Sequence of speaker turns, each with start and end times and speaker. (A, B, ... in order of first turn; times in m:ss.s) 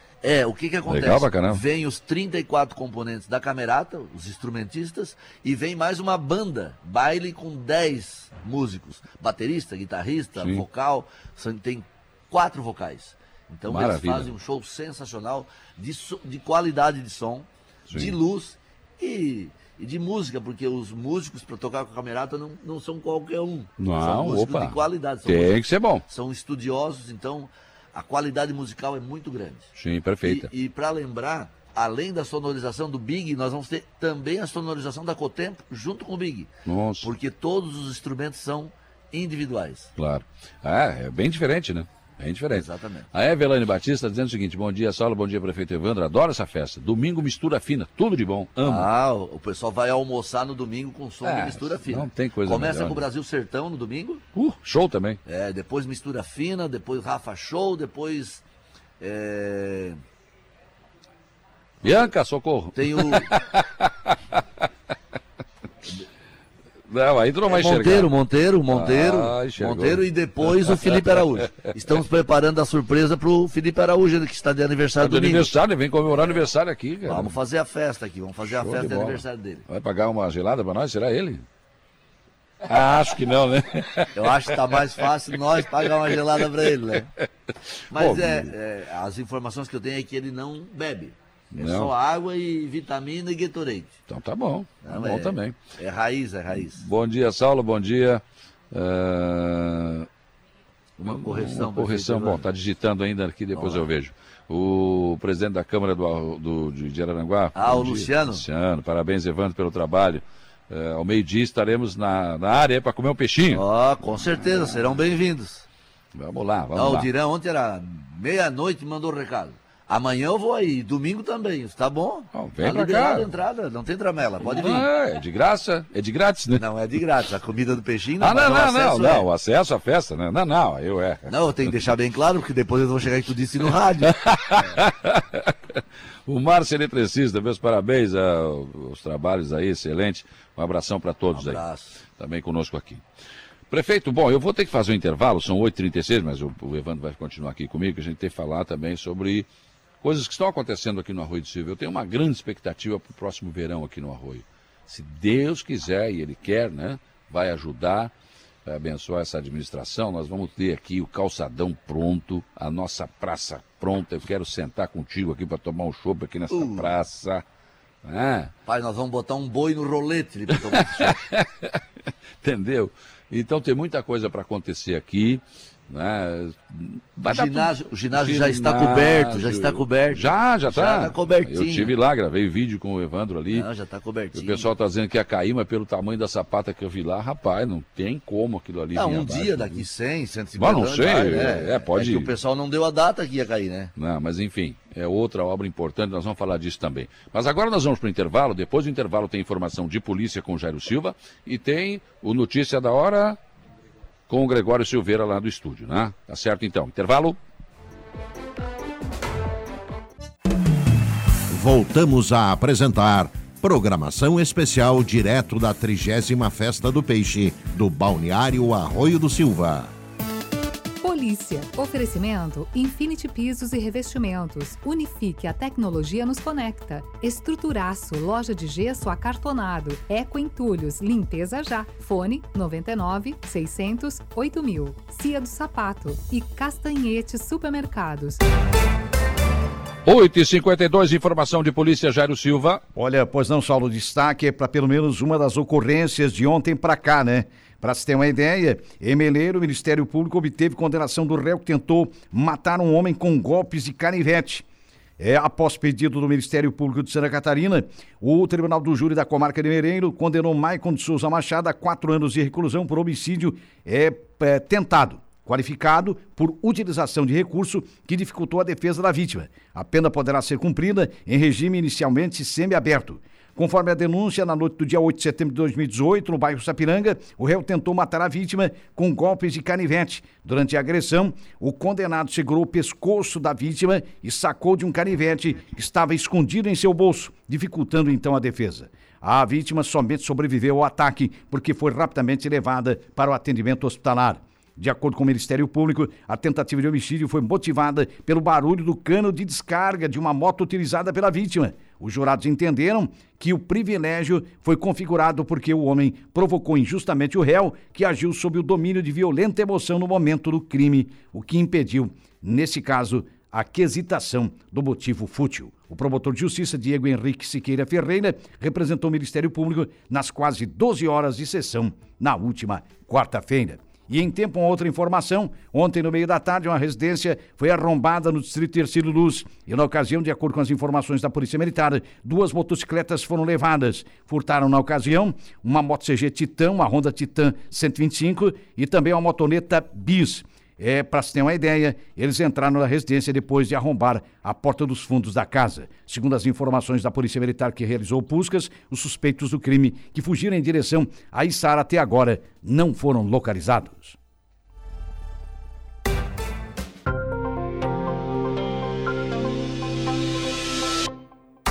0:00.2-0:29.7 A
0:00.9-0:01.6 B
0:10.4-0:10.6 B
0:13.7-0:14.3 B
0:17.9-0:18.2 B
0:23.8-0:26.0 B
0:29.7-0:30.5 B
0:30.2-0:36.5 A
0:36.7-0:37.1 B
0:37.0-0:39.9 A
0:40.0-0:48.9 B
0:42.5-0:43.1 A
0:48.6-0:54.2 A
0:51.2-0:53.1 B
0:54.3-0:55.2 B
0:55.2-0:58.4 A
0:59.0-1:00.0 A
1:01.8-1:04.4 B
1:02.8-1:03.3 A
1:06.9-1:08.1 B
1:07.5-1:15.5 A
1:08.7-1:11.9 B
1:15.0-1:17.4 B
1:16.1-1:16.4 A
1:17.1-1:19.6 A
1:18.5-1:21.4 B
1:22.7-1:25.1 B
1:24.1-1:27.1 A
1:25.6-1:27.0 B
1:27.9-1:28.5 B
1:27.9-1:34.0 A
1:31.5-1:31.9 B
1:34.1-1:35.6 B
1:34.8-1:36.8 A
1:36.6-1:40.1 B
1:41.0-1:42.4 A
1:41.0-1:55.0 B
1:43.6-1:43.9 A
1:47.6-1:48.4 A
1:53.5-1:55.6 A
1:56.2-1:57.1 B
1:56.7-2:04.9 A
2:02.3-2:03.3 B
2:04.4-2:06.6 B
2:06.5-2:09.3 A
2:08.2-2:11.8 B
2:11.3-2:14.2 A
2:14.0-2:23.0 B
2:21.3-2:22.0 A
2:23.7-2:29.5 B
2:30.0-2:38.1 B
2:38.7-2:47.4 B
2:46.5-2:46.9 A
2:48.0-2:48.5 B
2:48.7-2:51.2 A
2:50.5-2:51.8 B
2:52.4-3:03.7 B
2:57.2-3:01.9 A
3:03.5-3:04.7 A
3:04.3-3:09.8 B
3:08.9-3:13.9 A
3:10.6-3:12.3 B
3:14.0-3:23.4 B
3:24.3-3:27.4 B
3:31.5-3:39.9 C
3:41.0-3:58.4 D
4:00.1-4:02.8 B
4:03.0-4:14.7 E
4:15.2-5:54.2 E